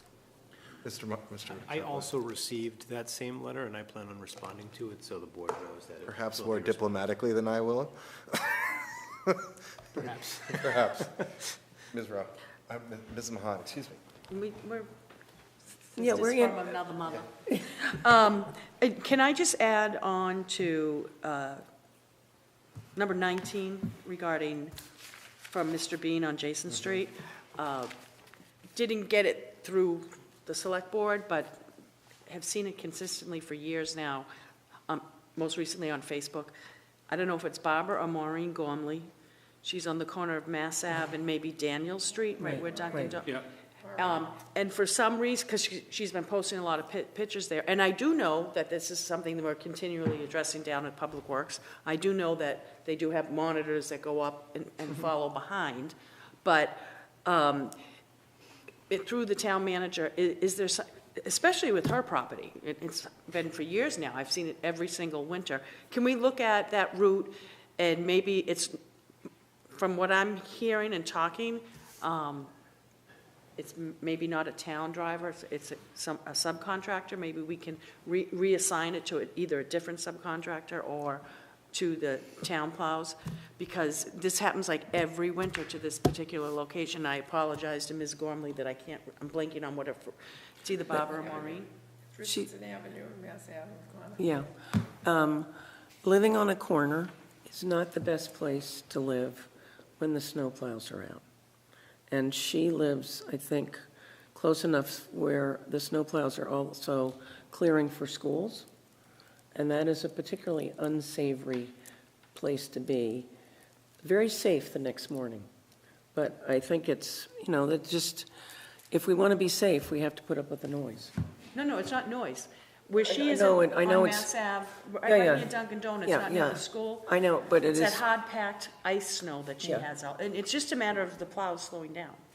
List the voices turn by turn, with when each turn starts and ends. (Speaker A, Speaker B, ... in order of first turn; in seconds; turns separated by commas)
Speaker A: 0.8-2.1, Speaker B: 1.5-6.9, Speaker A: 6.1-11.2, Speaker B: 10.0-10.9, Speaker A: 11.9-14.0, Speaker C: 14.3-14.9, Speaker C: 15.9-21.6, Speaker D: 16.0-16.7, Speaker C: 23.0-24.7, Speaker C: 25.5-27.9, Speaker C: 28.8-31.6, Speaker C: 32.3-34.3, Speaker C: 34.9-36.5, Speaker C: 37.1-39.1, Speaker C: 39.6-43.4, Speaker D: 42.4-43.2, Speaker E: 42.8-43.1, Speaker C: 44.0-57.8, Speaker C: 58.9-68.8, Speaker C: 69.7-72.5, Speaker C: 73.6-91.7, Speaker E: 92.2-94.2, Speaker D: 92.2-92.5, Speaker D: 94.2-95.5, Speaker D: 96.0-101.2, Speaker D: 102.1-103.8, Speaker D: 104.3-108.7, Speaker D: 109.5-111.8, Speaker D: 112.3-113.3, Speaker D: 114.0-115.5, Speaker D: 116.1-118.3, Speaker D: 118.9-121.1, Speaker C: 121.5-127.1, Speaker D: 123.0-124.3, Speaker D: 125.0-125.5, Speaker D: 126.0-128.0, Speaker C: 127.7-132.2, Speaker D: 129.6-129.9